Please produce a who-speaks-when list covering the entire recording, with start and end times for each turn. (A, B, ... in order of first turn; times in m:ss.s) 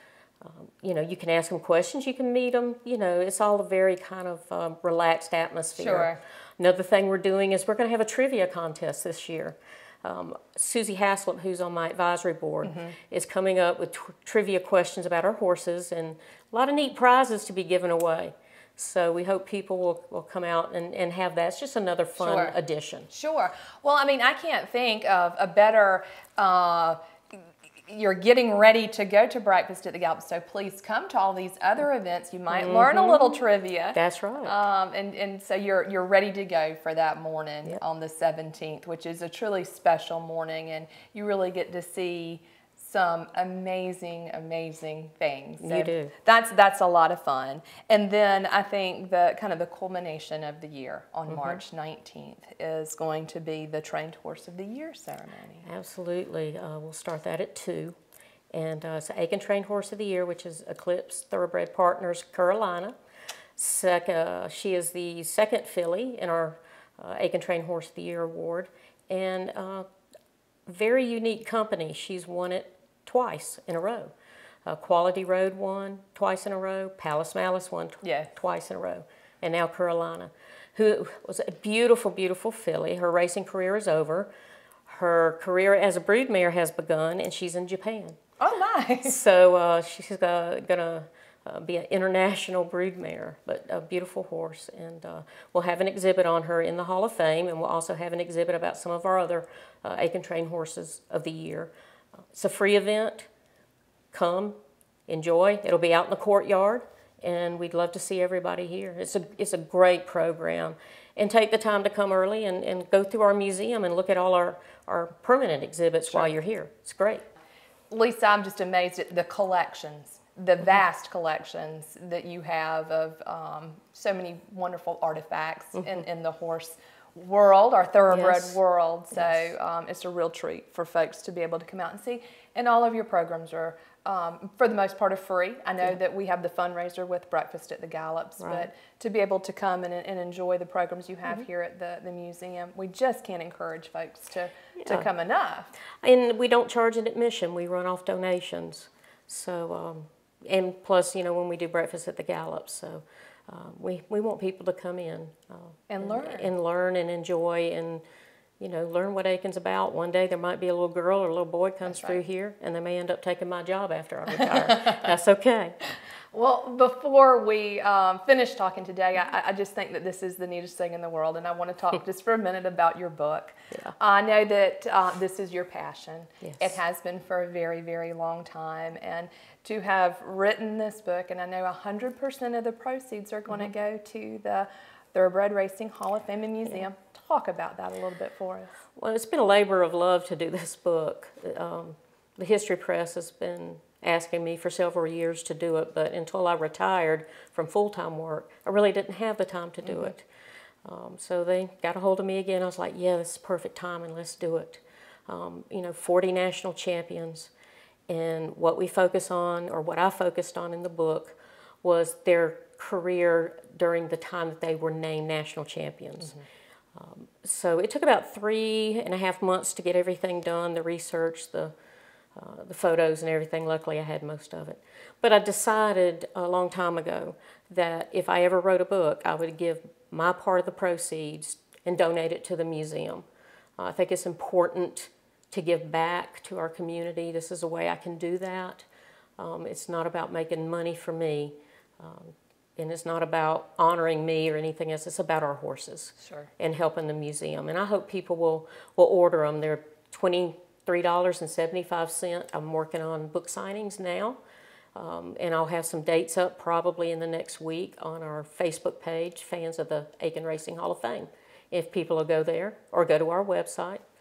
0:00.4-0:23.1 A
0:05.8-0:06.2 B
0:12.6-0:13.0 B
0:22.2-0:22.6 B
0:23.1-0:27.4 B
0:27.9-0:55.7 B
0:32.5-0:33.4 A
0:33.9-0:34.6 A
0:45.6-0:46.1 A
0:55.6-0:58.0 A
0:58.5-1:03.0 A
1:03.6-1:09.8 A
1:10.7-1:14.1 A
1:14.7-1:24.3 A
1:18.0-1:18.3 B
1:24.9-1:28.2 A
1:28.4-1:29.2 B
1:29.0-1:41.7 A
1:42.3-1:43.3 A
1:44.1-1:44.6 A
1:45.1-1:57.2 A
1:57.9-2:25.7 B
2:08.1-2:08.6 A
2:18.4-2:18.7 A
2:24.8-2:25.1 A
2:26.0-2:38.0 A
2:35.9-2:36.5 B
2:38.6-2:45.8 A
2:41.8-2:42.2 B
2:46.3-3:08.7 B
2:56.4-2:56.8 A
3:09.0-3:20.3 A
3:19.8-3:20.1 B
3:20.8-3:27.5 A
3:28.1-3:36.4 A
3:36.9-3:41.7 A
3:42.4-3:53.2 A
3:53.8-3:58.8 A
3:59.4-4:14.4 A
4:06.2-4:06.5 B
4:15.0-4:24.0 A